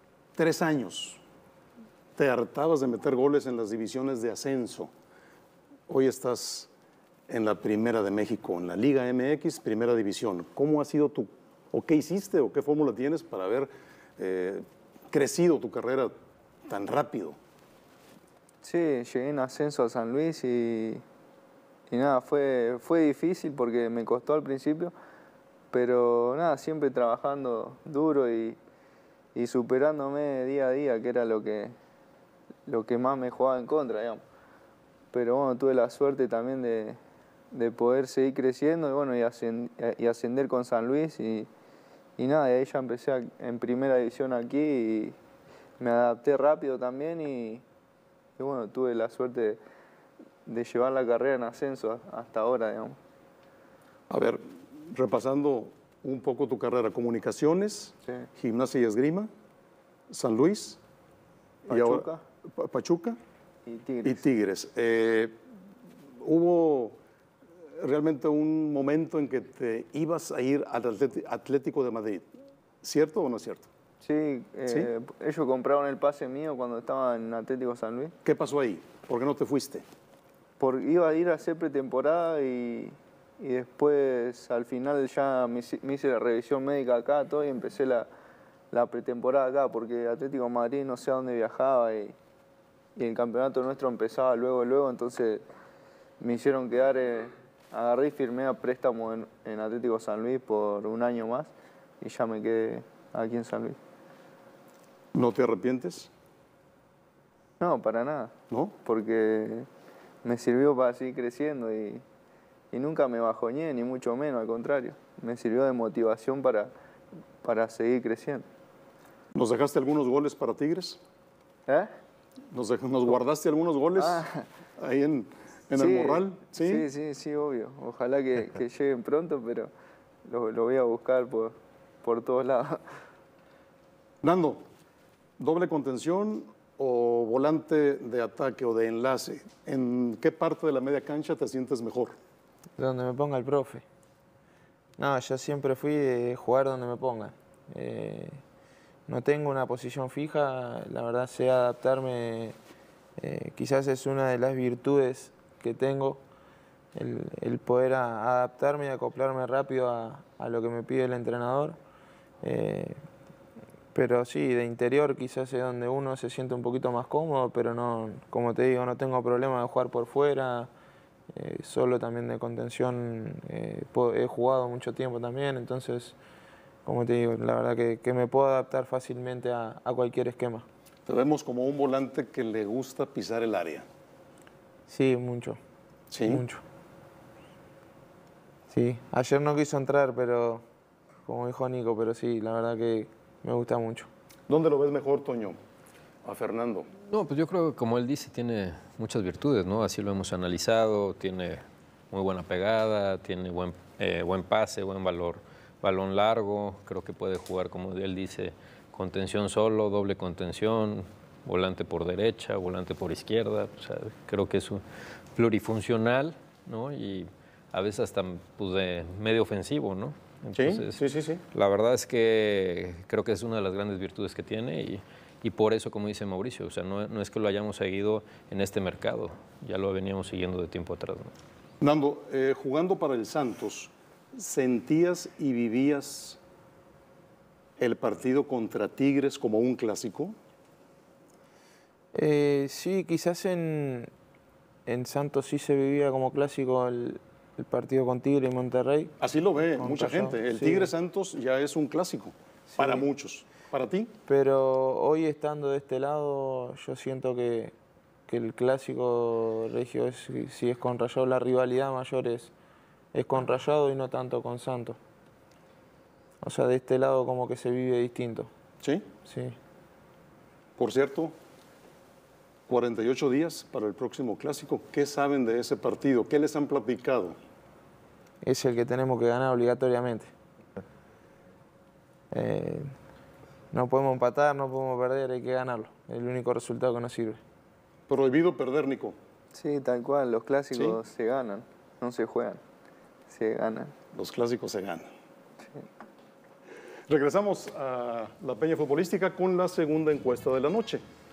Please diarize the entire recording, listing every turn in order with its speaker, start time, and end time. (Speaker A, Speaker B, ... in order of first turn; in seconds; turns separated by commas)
Speaker A: 0.4-1.2, Speaker A: 2.2-4.9, Speaker A: 5.9-6.7, Speaker A: 7.3-16.1, Speaker A: 16.7-17.4, Speaker B: 18.6-21.0, Speaker B: 21.9-24.9, Speaker B: 25.7-28.6, Speaker B: 29.4-31.7, Speaker B: 32.7-34.2, Speaker B: 35.1-37.0, Speaker B: 37.5-41.5, Speaker B: 42.2-45.2, Speaker B: 45.8-47.6, Speaker B: 48.4-49.6, Speaker B: 50.5-53.0, Speaker A: 54.1-59.3, Speaker A: 60.1-60.8, Speaker A: 61.7-63.2, Speaker B: 61.7-62.2, Speaker B: 63.7-64.2, Speaker A: 64.0-65.4, Speaker A: 66.2-67.0, Speaker A: 67.8-72.3, Speaker A: 72.8-73.7, Speaker B: 74.0-78.1, Speaker A: 78.2-79.9, Speaker B: 80.6-88.1, Speaker B: 88.7-92.2, Speaker B: 93.0-95.4, Speaker B: 96.2-103.8, Speaker A: 105.2-106.1, Speaker B: 107.6-109.7, Speaker A: 108.5-108.8, Speaker B: 110.2-112.0, Speaker B: 112.7-116.7, Speaker B: 117.4-118.5, Speaker A: 119.3-121.0, Speaker A: 122.5-124.3, Speaker B: 124.0-124.5, Speaker A: 124.8-126.9, Speaker B: 125.8-129.7, Speaker B: 130.3-132.8, Speaker A: 134.2-134.6, Speaker A: 135.4-142.1, Speaker C: 142.8-143.8, Speaker C: 145.0-148.4, Speaker C: 149.1-152.6, Speaker C: 153.2-156.2, Speaker C: 156.9-161.8, Speaker C: 162.4-163.0, Speaker C: 163.9-170.7, Speaker C: 171.3-176.2, Speaker C: 176.8-180.7, Speaker A: 181.1-183.9, Speaker C: 184.9-185.6, Speaker A: 186.1-186.4, Speaker C: 186.2-186.6, Speaker C: 188.7-190.6, Speaker C: 191.2-194.1, Speaker A: 194.5-195.6, Speaker A: 196.2-196.9, Speaker D: 197.1-214.8, Speaker D: 215.3-231.3, Speaker A: 220.6-221.4, Speaker A: 231.8-236.4, Speaker A: 237.8-240.4, Speaker C: 242.1-244.1, Speaker C: 244.9-249.2, Speaker A: 249.2-254.1, Speaker C: 249.7-250.9, Speaker C: 252.7-253.1, Speaker C: 254.3-257.8, Speaker C: 258.3-262.5, Speaker C: 263.1-265.0, Speaker C: 266.4-268.5, Speaker C: 269.3-269.6, Speaker A: 270.8-271.3, Speaker A: 272.7-277.4, Speaker C: 278.4-280.3, Speaker C: 282.3-282.9, Speaker C: 283.7-287.4, Speaker A: 288.1-289.2, Speaker B: 289.5-292.6, Speaker B: 293.3-293.9, Speaker A: 294.1-295.1, Speaker A: 297.1-301.0